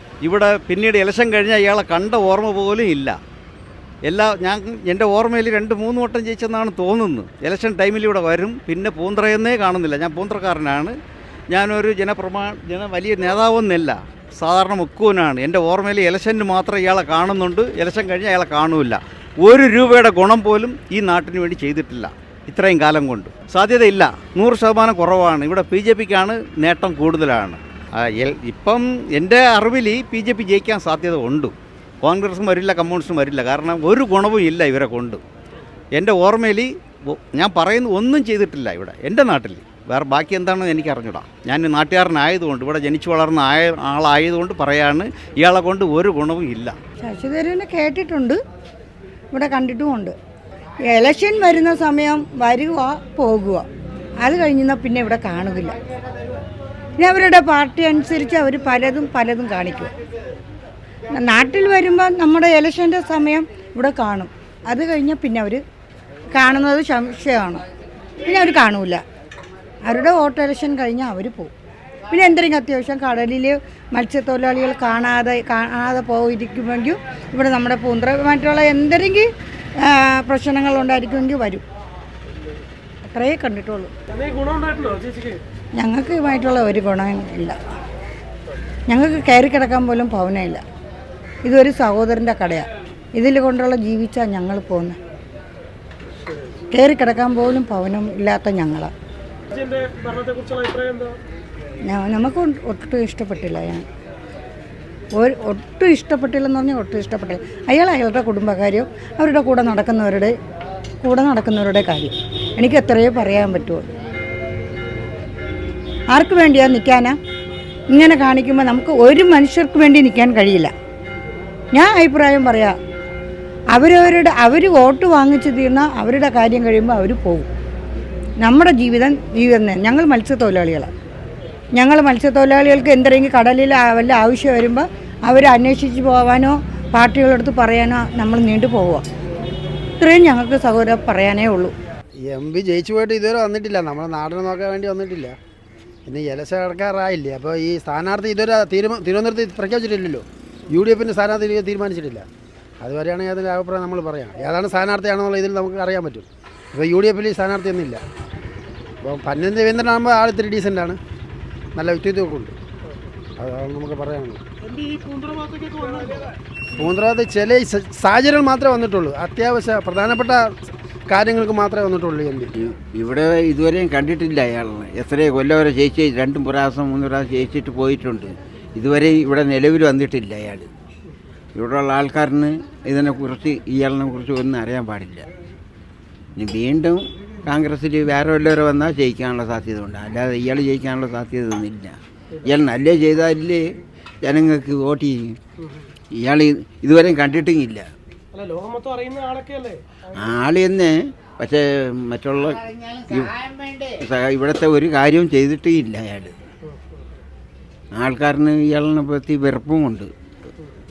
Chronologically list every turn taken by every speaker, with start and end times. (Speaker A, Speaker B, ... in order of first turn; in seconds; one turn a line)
Speaker A: 0.2-3.1
Speaker A: 4.0-10.9
Speaker A: 11.5-35.2
Speaker A: 36.0-46.7
Speaker B: 47.0-48.4
Speaker B: 49.3-50.1
Speaker B: 50.9-53.6
Speaker B: 54.2-55.8
Speaker B: 57.0-59.9
Speaker B: 61.1-65.6
Speaker B: 66.3-67.6
Speaker B: 68.2-69.0
Speaker B: 69.8-71.5
Speaker B: 72.1-79.3
Speaker B: 79.8-81.6
Speaker B: 83.0-83.9
Speaker C: 84.2-85.4
Speaker B: 85.8-87.6
Speaker B: 88.9-90.6
Speaker B: 91.4-95.0
Speaker B: 96.7-98.9
Speaker C: 99.5-101.2
Speaker B: 101.9-103.8
Speaker B: 105.2-110.3
Speaker B: 111.0-113.9
Speaker B: 116.1-117.2
Speaker B: 117.9-120.7
Speaker B: 121.7-122.8
Speaker B: 123.7-127.5
Speaker B: 128.4-130.9
Speaker B: 131.8-139.0
Speaker B: 140.0-141.7
Speaker D: 142.2-145.3
Speaker D: 146.1-152.2
Speaker D: 152.8-158.0
Speaker D: 159.0-161.0
Speaker D: 161.7-162.5
Speaker D: 163.4-164.4
Speaker C: 164.6-166.3
Speaker D: 166.8-170.5
Speaker D: 171.1-172.5
Speaker E: 172.6-180.7
Speaker E: 181.5-185.3
Speaker E: 186.3-193.6
Speaker E: 194.2-195.4
Speaker E: 196.1-197.9
Speaker C: 198.3-200.2
Speaker E: 200.1-206.4
Speaker E: 207.9-210.1